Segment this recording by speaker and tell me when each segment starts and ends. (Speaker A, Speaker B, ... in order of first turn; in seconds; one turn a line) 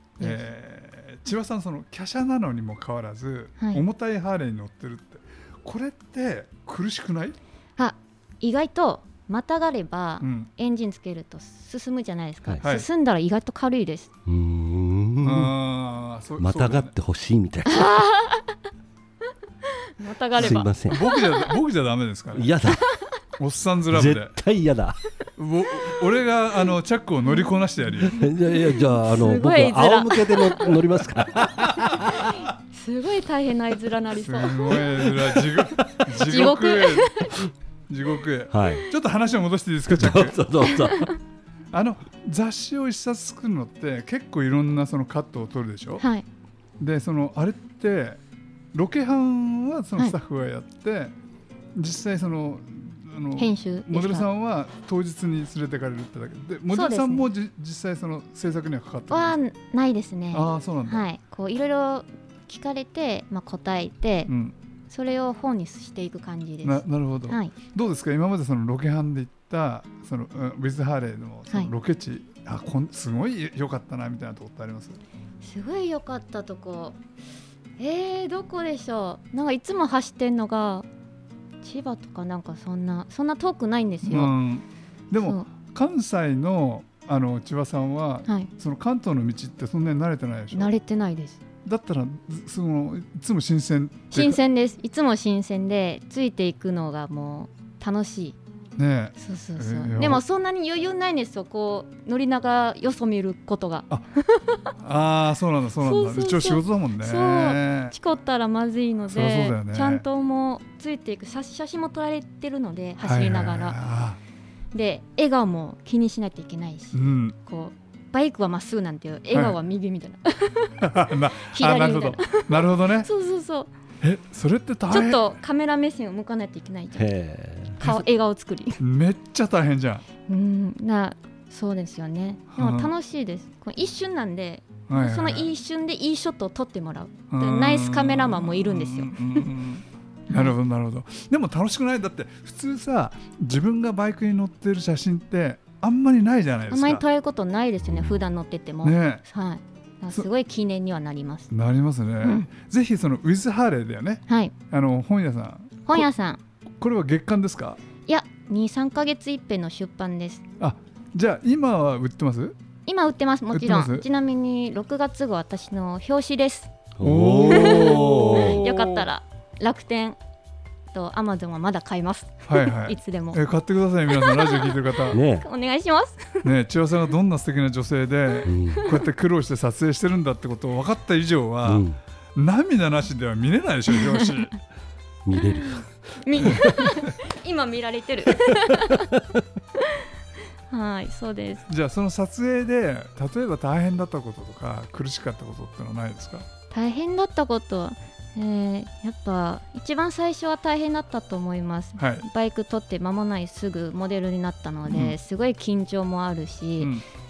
Speaker A: 0.2-7.4
Speaker B: 7.8-14.1
Speaker A: 10.2-10.5
Speaker A: 12.6-12.9
Speaker C: 14.2-15.5
Speaker A: 15.2-16.9
Speaker C: 16.4-17.9
Speaker B: 17.6-18.6
Speaker B: 19.6-21.5
Speaker C: 20.4-21.0
Speaker A: 20.4-22.6
Speaker C: 22.3-22.8
Speaker B: 22.8-23.1
Speaker A: 23.4-24.3
Speaker C: 23.9-25.0
Speaker A: 25.4-28.2
Speaker C: 28.1-32.4
Speaker B: 28.5-30.9
Speaker B: 31.9-34.9
Speaker A: 34.2-37.3
Speaker C: 34.9-35.9
Speaker B: 36.1-37.4
Speaker A: 37.9-40.7
Speaker C: 38.5-38.9
Speaker C: 39.9-41.1
Speaker B: 40.7-41.1
Speaker A: 41.7-46.0
Speaker B: 46.0-46.2
Speaker A: 46.8-48.2
Speaker A: 48.7-51.1
Speaker A: 51.7-59.4
Speaker B: 53.4-54.2
Speaker B: 56.7-57.3
Speaker B: 59.1-64.3
Speaker A: 60.3-61.0
Speaker A: 64.3-64.5
Speaker B: 64.9-67.5
Speaker A: 66.6-75.0
Speaker B: 75.4-77.0
Speaker B: 77.8-80.9
Speaker B: 81.6-84.3
Speaker A: 84.0-90.7
Speaker B: 85.1-85.5
Speaker B: 90.5-91.4
Speaker A: 91.6-94.4
Speaker B: 94.1-98.4
Speaker A: 98.8-100.2
Speaker B: 99.2-104.7
Speaker A: 104.8-107.9
Speaker B: 105.8-113.8
Speaker A: 109.1-110.0
Speaker A: 113.0-114.2
Speaker B: 114.7-120.9
Speaker A: 116.9-117.3
Speaker A: 119.3-119.6
Speaker A: 120.8-123.1
Speaker B: 121.4-123.7
Speaker A: 124.0-125.4
Speaker B: 124.9-127.1
Speaker C: 126.9-127.8
Speaker B: 127.8-128.8
Speaker A: 128.8-130.0
Speaker B: 130.3-139.5
Speaker A: 132.5-132.9
Speaker A: 134.9-135.5
Speaker A: 137.3-147.0
Speaker B: 140.3-140.6
Speaker B: 146.7-151.5
Speaker C: 147.9-148.2
Speaker A: 148.8-149.2
Speaker A: 151.5-156.1
Speaker B: 152.2-152.5
Speaker B: 154.3-154.5
Speaker B: 155.8-156.4
Speaker A: 156.8-157.8
Speaker B: 158.1-160.4
Speaker A: 160.6-162.6
Speaker B: 162.8-166.7
Speaker A: 163.5-164.0
Speaker C: 167.0-168.6
Speaker A: 167.0-169.1
Speaker B: 167.5-170.2
Speaker B: 170.9-173.4
Speaker A: 172.5-175.2
Speaker B: 174.1-176.5
Speaker C: 175.1-175.5
Speaker A: 176.4-184.5
Speaker C: 178.4-178.9
Speaker C: 181.6-182.0
Speaker C: 185.2-186.9
Speaker B: 185.5-189.1
Speaker B: 189.7-190.1
Speaker B: 190.7-191.7
Speaker A: 191.7-196.4
Speaker B: 196.7-206.9
Speaker A: 202.0-202.2
Speaker A: 204.9-205.2